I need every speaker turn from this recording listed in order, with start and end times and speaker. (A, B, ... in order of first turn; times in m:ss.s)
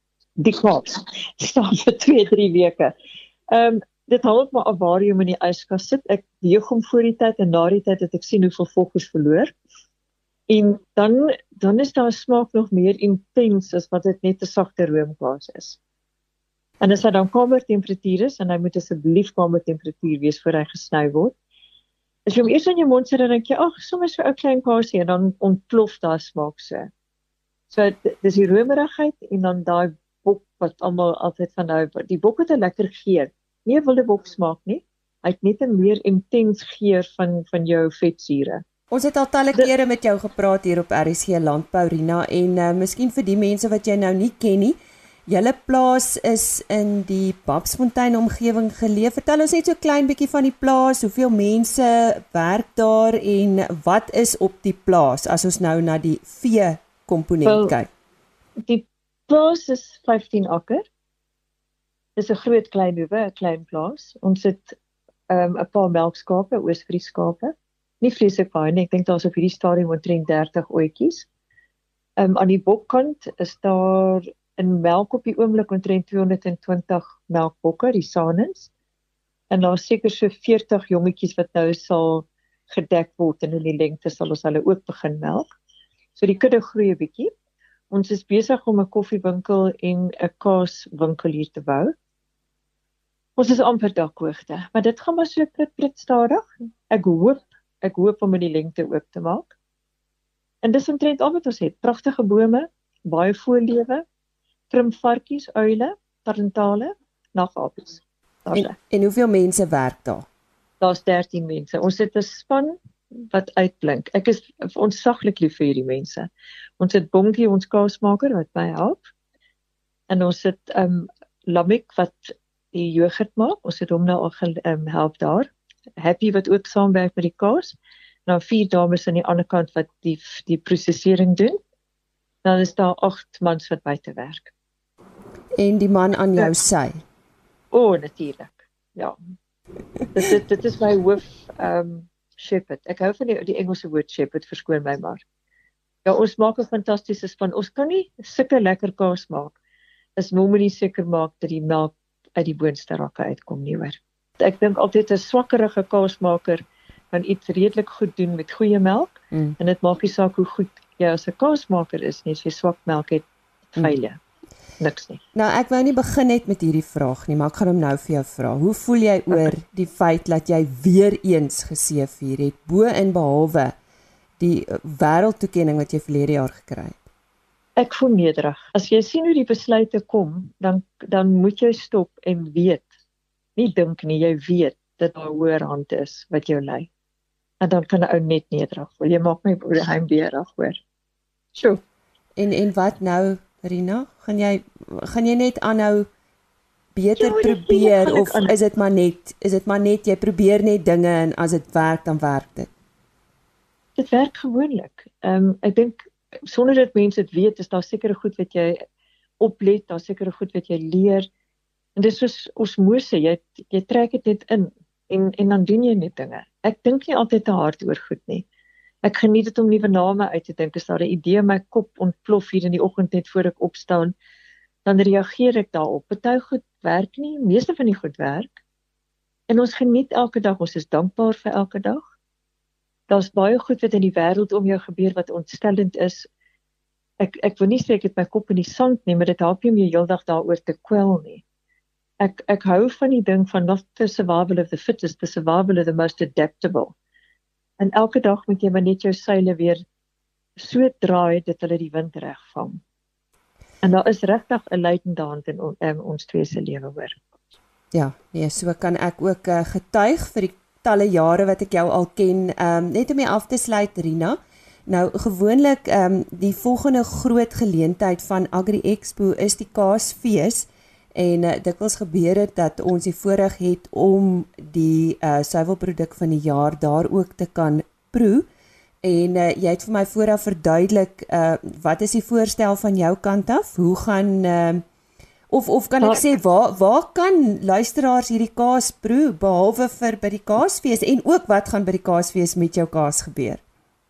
0:00.4-0:02.9 A
0:03.5-0:09.5 A
0:10.5-0:15.8 A
0:16.8-0:21.4 A
0:22.3-0:26.9 A
0:27.7-0:38.6 A
0:38.9-0:57.9 B
0:57.4-0:57.7 A
0:58.7-1:00.8 A
1:02.2-1:04.8 A
1:05.3-1:11.3 A
1:12.2-1:18.7 A
1:19.5-1:25.5 A
1:26.2-1:27.3 A
1:27.9-1:31.9 A
1:33.4-1:39.5 A
1:40.6-1:44.0 A
1:44.7-1:48.8 A
1:48.5-1:50.3 B
1:50.8-1:59.1 A
2:00.1-2:11.6 A
2:12.4-2:14.5 A
2:15.6-2:17.0 B
2:17.7-2:19.2 A
2:20.1-2:25.2 A
2:26.0-2:29.6 A
2:30.2-2:43.3 A
2:43.8-2:44.2 A
2:44.8-2:45.2 A
2:45.3-2:53.8 B
2:54.4-2:57.0 B
2:57.8-3:02.9 A
3:03.6-3:06.9 A
3:07.6-3:10.8 A
3:11.6-3:11.8 A
3:12.4-3:16.1 B
3:17.0-3:22.7 B
3:17.2-3:18.5 A
3:24.0-3:28.8 A
3:29.4-3:31.3 A
3:32.0-3:38.5 A
3:39.0-3:44.2 A
3:44.8-3:48.6 A
3:49.5-3:52.0 A
3:53.1-3:56.3 A
3:57.2-4:01.4 A
4:02.2-4:06.9 A
4:07.8-4:09.8 A
4:10.6-4:12.8 A
4:13.8-4:17.2 A
4:17.9-4:38.5 B
4:39.0-4:44.8 B
4:45.5-4:53.6 B
4:46.0-4:46.3 A